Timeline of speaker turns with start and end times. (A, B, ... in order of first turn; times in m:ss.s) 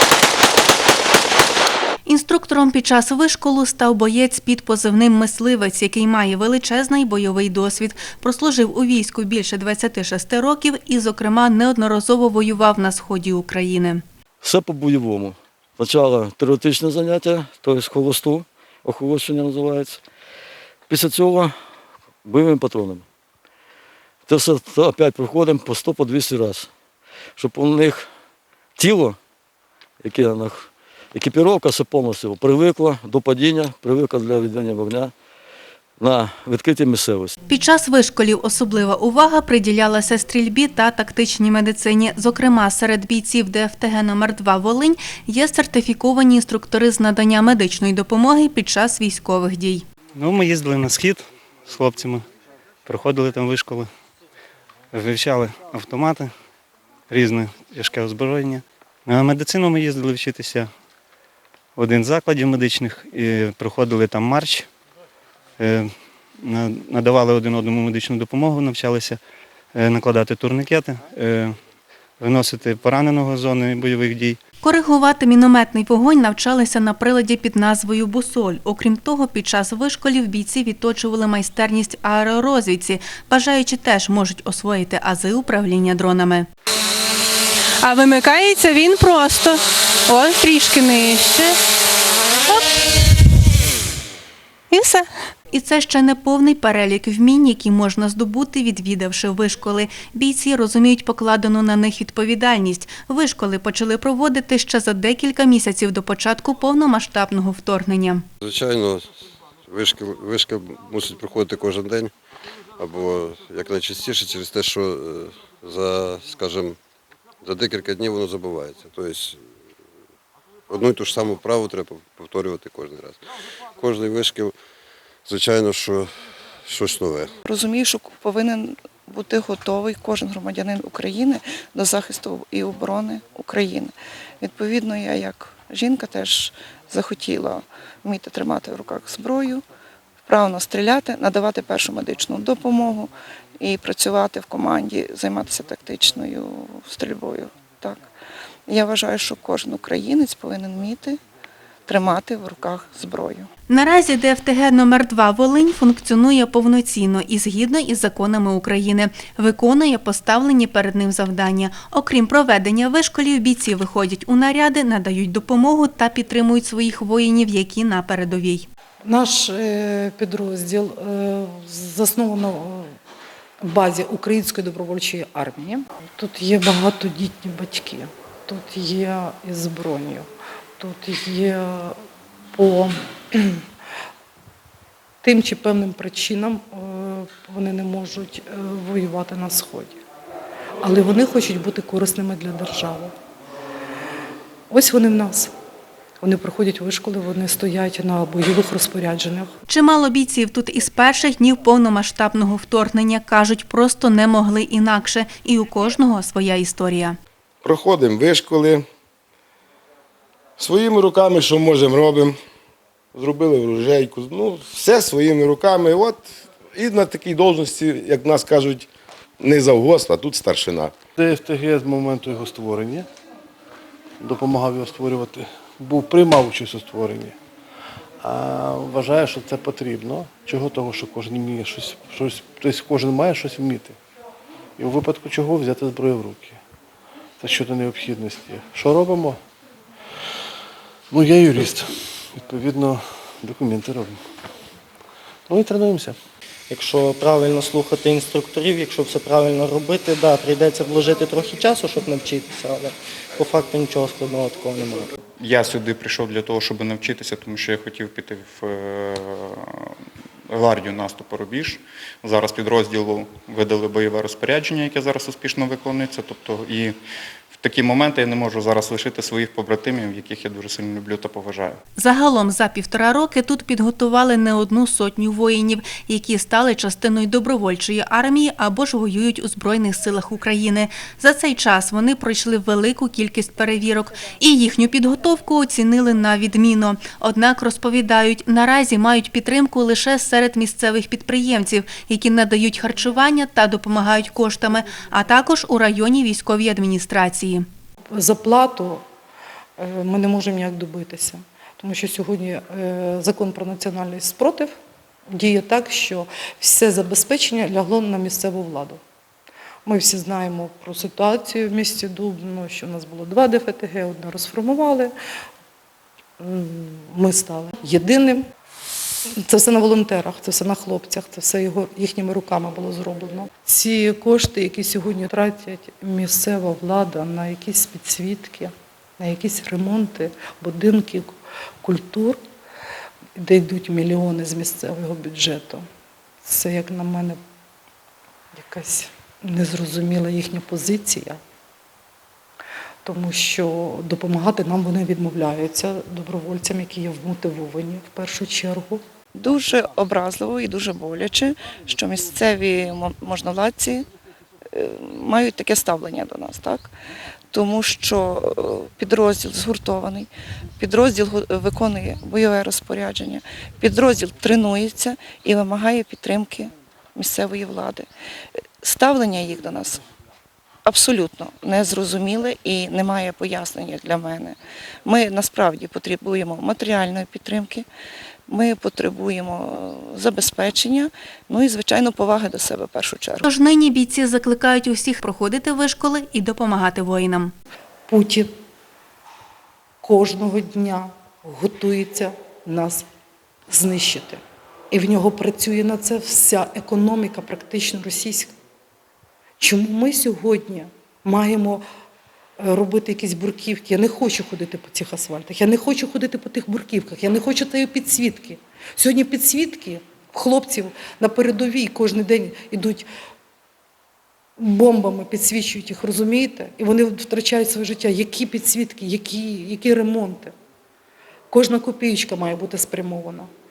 0:02.0-0:14.0 A
0:14.4-0:20.0 B
0:20.9-0:21.6 B
0:22.2-0:23.0 B
0:24.2-0:26.7 B
0:27.4-0:28.1 B
0:28.8-0:29.2 B
0:30.0-0:35.1 B
0:36.0-0:37.3 B
0:37.5-0:49.8 A
0:50.2-0:52.2 C
0:52.8-0:53.9 C
0:54.9-0:56.3 C
0:57.1-1:00.7 C
1:01.8-1:04.7 C
1:05.6-1:05.9 C
1:06.4-1:09.2 C
1:09.7-1:11.5 C
1:12.2-1:14.4 C
1:14.6-1:26.5 A
1:27.8-1:31.6 A
1:32.4-1:32.7 A
1:34.7-1:48.2 A
1:48.4-1:49.1 D
1:49.7-1:52.1 D
1:52.8-1:56.8 D
1:57.4-1:59.4 D
2:00.7-2:03.2 D
2:03.8-2:04.5 D
2:05.2-2:07.3 D
2:07.4-2:19.6 E
2:20.3-2:28.0 E
2:28.7-2:31.2 E
2:31.9-2:33.5 E
2:33.7-2:48.6 A
2:49.0-2:52.9 F
2:53.6-3:00.3 F
3:00.8-3:02.0 F
3:02.5-3:03.6 F
3:05.2-3:10.0 F
3:10.8-3:13.1 F
3:14.7-3:15.5 F
3:16.2-3:19.5 F
3:19.7-3:27.2 A
3:27.6-3:28.9 G
3:30.6-3:32.4 G
3:33.1-3:38.9 G
3:39.4-3:40.9 G
3:41.2-3:43.0 H
3:44.2-3:47.3 H
3:48.3-3:53.9 H
3:54.8-3:56.5 H
3:57.4-3:59.3 H
4:01.1-4:01.8 H
4:02.4-4:04.1 H
4:05.5-4:06.1 H
4:06.7-4:15.1 I
4:15.4-4:19.8 J
4:20.5-4:27.0 J
4:27.5-4:31.8 J
4:32.0-4:57.6 A
4:58.1-4:59.0 F
4:59.8-5:04.7 F
5:05.3-5:09.0 F
5:09.8-5:15.1 F
5:16.4-5:18.4 F
5:19.4-5:32.4 F
5:33.4-5:35.8 F
5:36.4-5:37.4 F
5:38.6-5:41.4 F
5:43.0-5:49.0 F
5:49.3-5:54.0 E
5:54.7-5:56.9 E
5:57.5-6:00.3 E
6:00.8-6:08.0 E
6:08.8-6:10.0 E
6:10.8-6:17.8 E
6:18.5-6:23.4 E
6:23.4-6:27.5 A
6:28.1-6:28.5 F
6:30.0-6:33.0 F
6:33.7-6:34.4 F
6:34.9-6:38.5 F
6:39.6-6:41.8 F
6:42.6-6:53.0 F
6:54.6-7:00.5 F
7:01.5-7:03.5 F